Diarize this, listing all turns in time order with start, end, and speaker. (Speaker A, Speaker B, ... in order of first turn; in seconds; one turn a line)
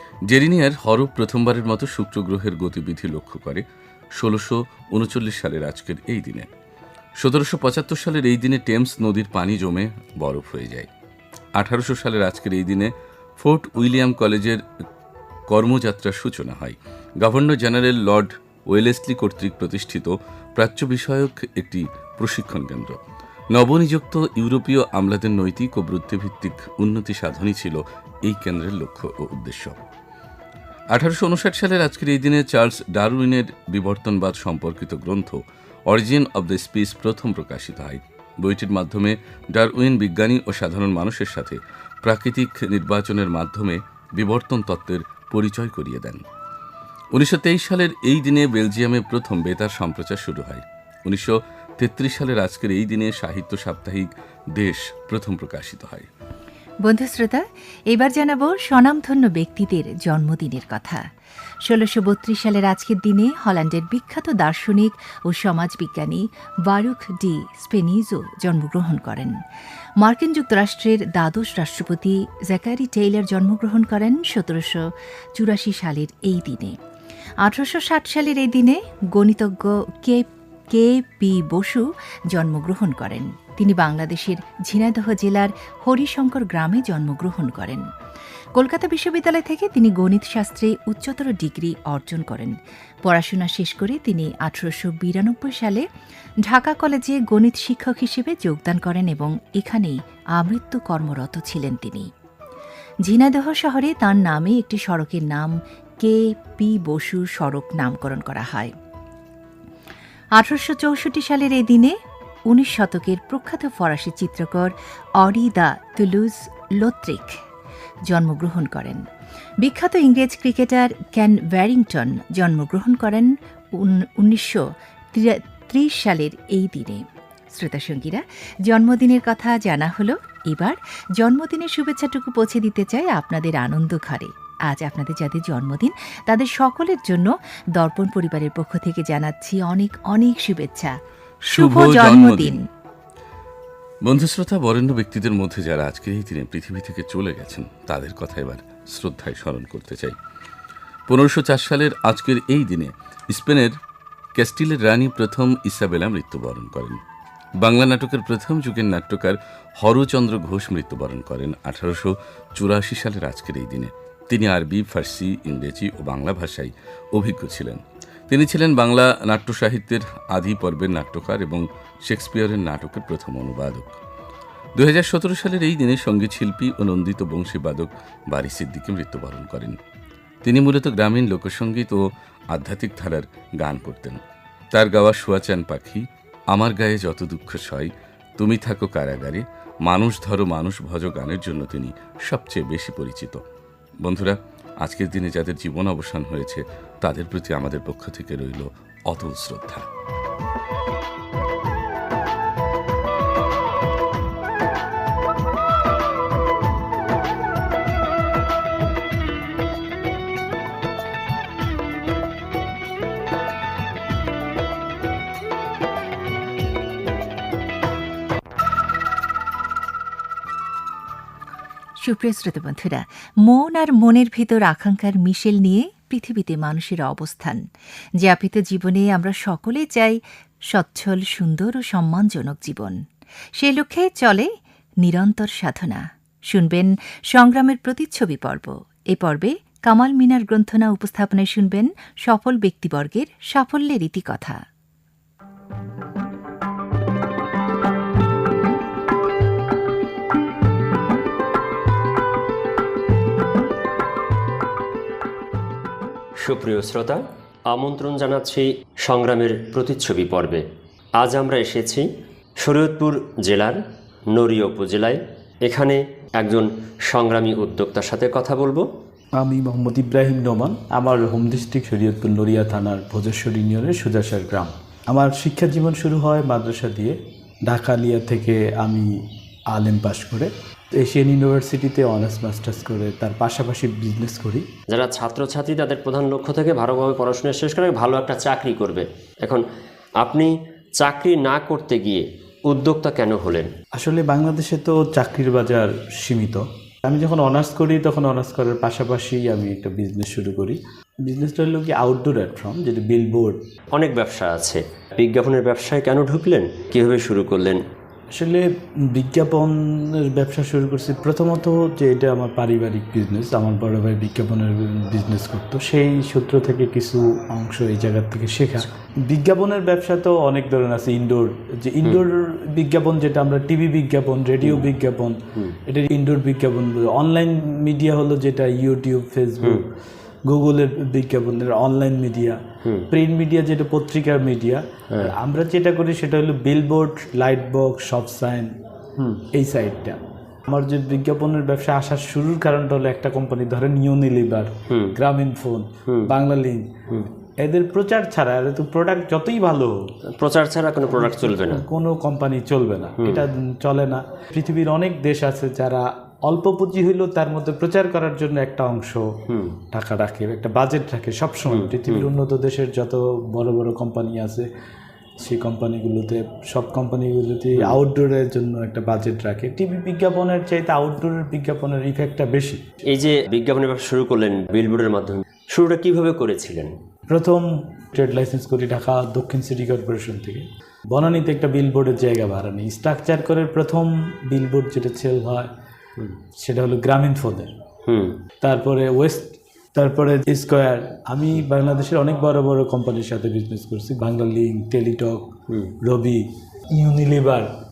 Speaker A: 0.3-3.6
Speaker A: 4.2-6.5
Speaker A: 7.2-10.9
Speaker A: 11.6-14.7
Speaker A: 15.5-23.0
Speaker A: 23.5-29.8
Speaker A: 30.9-46.2
Speaker A: 47.1-56.1
Speaker B: 56.8-61.0
Speaker B: 61.6-69.4
Speaker B: 70.0-76.8
Speaker B: 77.4-87.9
Speaker B: 88.5-95.8
Speaker B: 96.5-102.1
Speaker B: 103.0-108.7
Speaker B: 110.3-112.0
Speaker B: 112.5-117.4
Speaker B: 118.1-119.0
Speaker B: 119.6-141.0
Speaker A: 141.5-142.6
Speaker B: 141.5-142.6
Speaker A: 144.0-150.2
Speaker A: 151.1-153.8
Speaker A: 154.3-157.0
Speaker A: 157.6-173.9
Speaker A: 174.8-179.8
Speaker A: 180.4-184.2
Speaker A: 184.7-193.4
Speaker A: 194.0-199.9
Speaker B: 222.0-227.6
Speaker B: 228.2-233.0
Speaker B: 233.6-244.6
Speaker C: 256.4-260.6
Speaker C: 261.2-262.1
Speaker C: 262.6-268.9
Speaker D: 269.4-277.2
Speaker D: 277.7-279.1
Speaker D: 279.7-284.7
Speaker C: 284.9-289.6
Speaker C: 290.2-293.7
Speaker D: 293.9-303.6
Speaker C: 303.9-307.8
Speaker D: 308.4-329.9
Speaker C: 324.6-324.9
Speaker D: 330.5-332.6
Speaker D: 333.1-338.7
Speaker D: 339.5-346.9
Speaker C: 346.1-346.3
Speaker D: 347.6-350.1
Speaker C: 350.3-351.8
Speaker D: 351.1-359.3
Speaker C: 353.2-353.4
Speaker C: 359.5-359.7
Speaker D: 359.9-364.7
Speaker C: 361.7-362.3
Speaker D: 365.4-372.8
Speaker C: 373.1-376.9
Speaker D: 377.3-385.7
Speaker D: 386.6-387.7
Speaker C: 388.1-388.4
Speaker D: 388.6-395.5
Speaker D: 396.0-396.4
Speaker D: 396.9-397.7